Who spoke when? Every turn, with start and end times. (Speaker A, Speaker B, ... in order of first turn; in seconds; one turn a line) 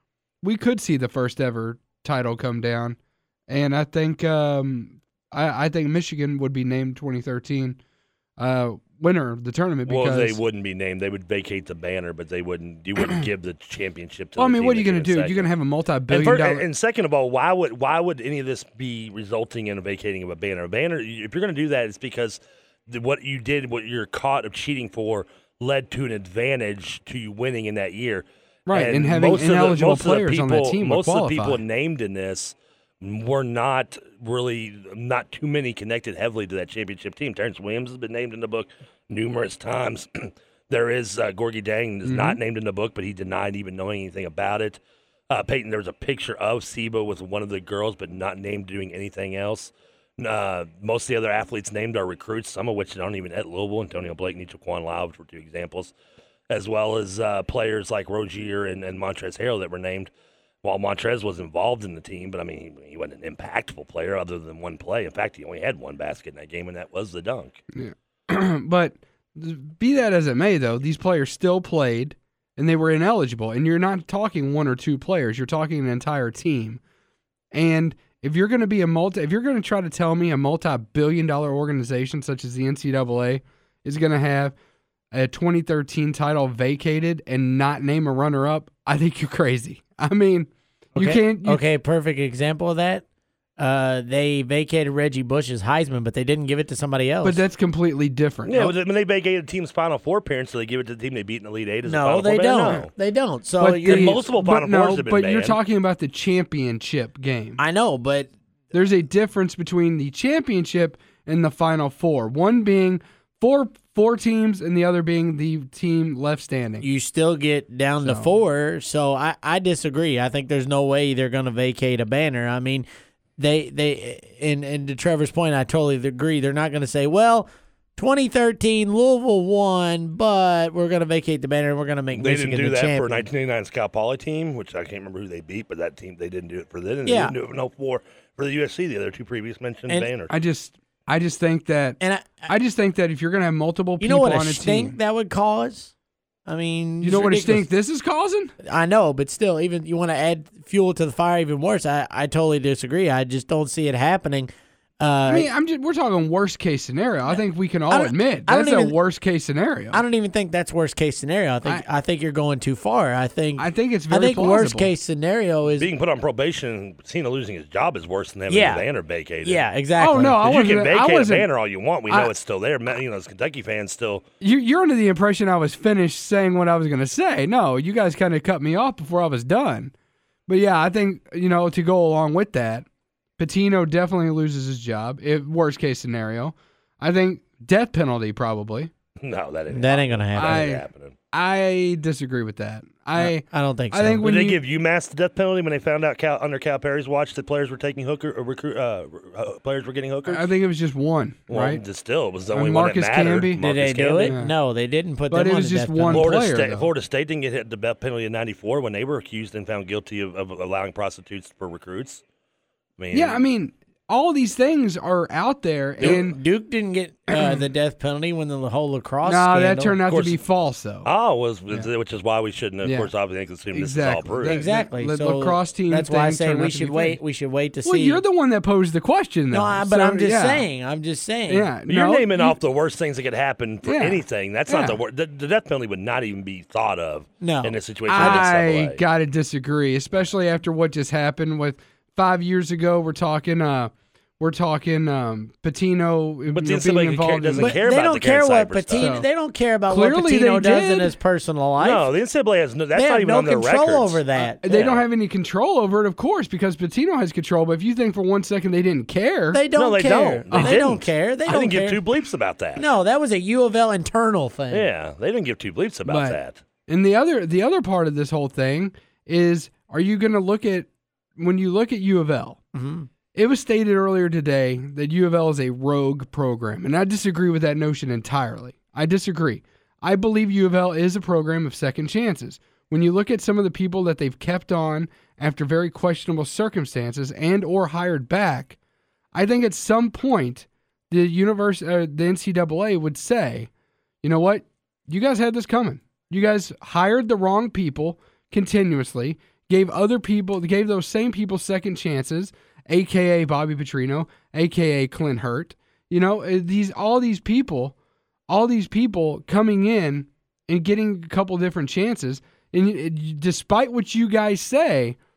Speaker A: 0.4-3.0
Speaker A: 3.5-7.8
Speaker A: 8.4-10.4
Speaker B: 9.8-15.5
Speaker A: 14.4-16.6
Speaker B: 16.1-55.9
Speaker A: 28.7-31.6
Speaker A: 42.0-42.4
Speaker B: 56.5-60.1
Speaker B: 60.6-67.6
Speaker A: 67.7-76.8
Speaker A: 77.5-84.5
Speaker A: 85.1-91.6
Speaker C: 91.0-93.0
Speaker C: 93.6-97.4
Speaker A: 97.2-98.7
Speaker B: 98.5-102.9
Speaker C: 101.8-104.2
Speaker A: 103.6-107.6
Speaker B: 103.8-105.6
Speaker C: 107.6-108.3
Speaker A: 108.7-116.8
Speaker C: 116.8-122.8
Speaker A: 118.0-118.3
Speaker C: 123.4-133.3
Speaker B: 132.1-140.3
Speaker C: 137.1-137.3
Speaker A: 140.3-144.9
Speaker C: 142.0-142.5
Speaker C: 144.0-145.9
Speaker C: 146.4-147.7
Speaker A: 147.0-148.5
Speaker C: 148.6-155.5
Speaker A: 155.3-160.0
Speaker C: 157.9-158.9
Speaker C: 159.9-165.9
Speaker A: 163.6-164.9
Speaker B: 165.8-169.6
Speaker C: 168.5-168.8
Speaker C: 169.4-170.4
Speaker A: 170.0-171.5
Speaker B: 170.4-174.2
Speaker A: 174.4-179.9
Speaker A: 180.5-182.8
Speaker A: 183.4-188.9
Speaker B: 189.2-191.1
Speaker C: 189.7-190.7
Speaker A: 190.3-194.6
Speaker C: 193.2-194.2
Speaker B: 194.2-200.5
Speaker A: 200.3-201.8
Speaker B: 201.5-204.3
Speaker A: 202.5-203.6
Speaker C: 203.6-206.3
Speaker A: 204.2-204.5
Speaker A: 205.3-206.9
Speaker B: 206.1-212.2
Speaker B: 213.0-213.4
Speaker A: 213.1-216.4
Speaker C: 216.0-220.0
Speaker A: 217.3-217.6
Speaker A: 219.2-221.1
Speaker B: 220.1-220.4
Speaker B: 221.0-224.6
Speaker A: 222.8-223.1
Speaker A: 223.7-227.2
Speaker C: 224.4-228.2
Speaker A: 227.8-230.7
Speaker C: 229.5-231.7
Speaker A: 231.5-232.6
Speaker B: 231.9-239.0
Speaker A: 233.8-235.0
Speaker C: 237.4-238.5
Speaker A: 238.1-247.8
Speaker B: 246.5-249.1
Speaker C: 247.6-252.1
Speaker A: 249.0-249.3
Speaker A: 249.9-251.1
Speaker B: 251.8-255.0
Speaker C: 252.9-254.6
Speaker A: 254.4-259.6
Speaker C: 259.5-262.0
Speaker B: 259.8-262.9
Speaker A: 260.5-260.8
Speaker C: 262.8-264.9
Speaker B: 264.7-266.6
Speaker A: 266.1-272.6
Speaker C: 272.7-273.1
Speaker A: 273.3-288.8
Speaker A: 289.3-293.7
Speaker A: 294.2-307.9
Speaker A: 308.5-315.2